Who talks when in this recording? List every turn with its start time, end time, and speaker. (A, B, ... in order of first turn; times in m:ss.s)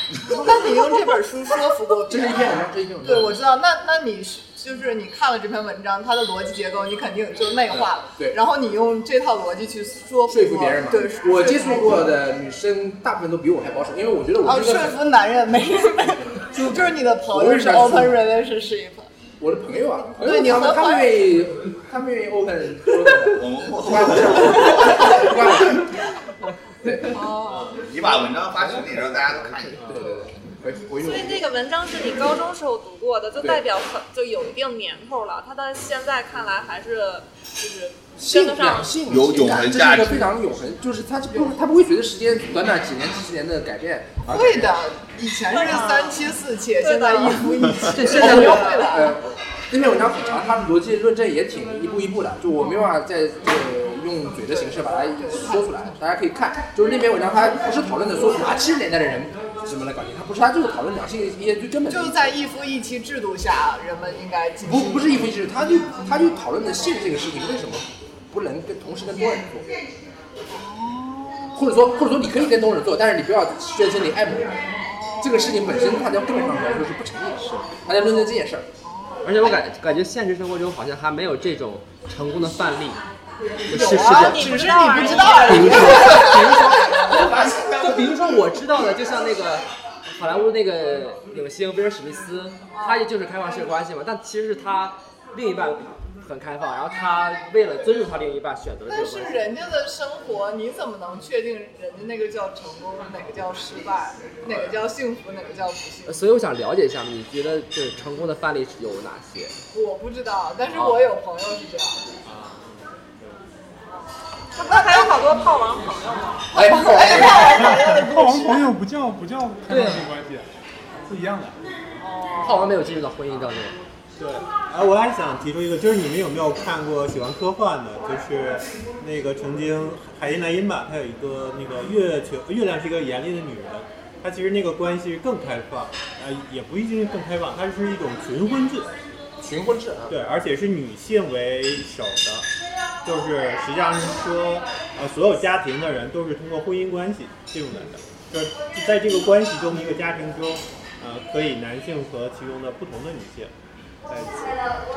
0:00.2-0:12.1 A
0:02.1-0:03.4 B
0:07.7-0:08.4 B
0:10.3-0:15.0 B
0:14.4-0:19.1 A
0:16.5-0:18.2 B
0:19.4-0:25.9 B
0:20.1-0:21.1 A
0:23.3-0:24.8 C
0:24.8-0:25.3 A
0:26.8-0:27.1 B
0:27.1-0:27.7 A
0:27.5-0:27.7 D
0:27.8-0:29.8 C
0:29.8-0:30.1 D
0:29.8-0:31.5 B
0:31.0-0:38.9 E
0:38.2-0:44.8 B
0:39.1-0:40.3 C
0:44.2-0:49.2 A
0:45.5-0:48.9 E
0:47.9-1:02.3 B
0:55.2-0:55.7 A
1:01.9-1:05.2 A
1:04.6-1:09.7 B
1:10.5-1:12.3 A
1:11.5-1:14.6 B
1:14.8-1:15.6 A
1:15.2-1:18.6 B
1:18.8-1:19.6 A
1:19.2-1:23.0 F
1:23.7-1:24.6 F
1:23.7-1:27.4 A
1:23.8-1:26.2 E
1:25.2-1:39.5 F
1:27.1-1:28.3 C
1:32.7-1:33.1 A
1:38.8-1:46.2 A
1:46.0-1:49.6 F
1:49.7-1:52.0 A
1:50.7-1:51.1 F
1:52.2-1:53.4 D
1:54.6-1:56.4 E
1:54.7-1:55.2 A
1:56.5-1:58.6 A
1:56.5-1:57.5 B
1:57.4-2:00.5 G
1:59.7-2:00.0 F
2:01.0-2:01.6 G
2:02.0-2:02.7 A
2:02.4-2:03.8 F
2:04.2-2:18.9 D
2:19.4-2:20.2 B
2:20.1-2:22.5 D
2:23.0-2:33.5 D
2:34.1-2:34.6 D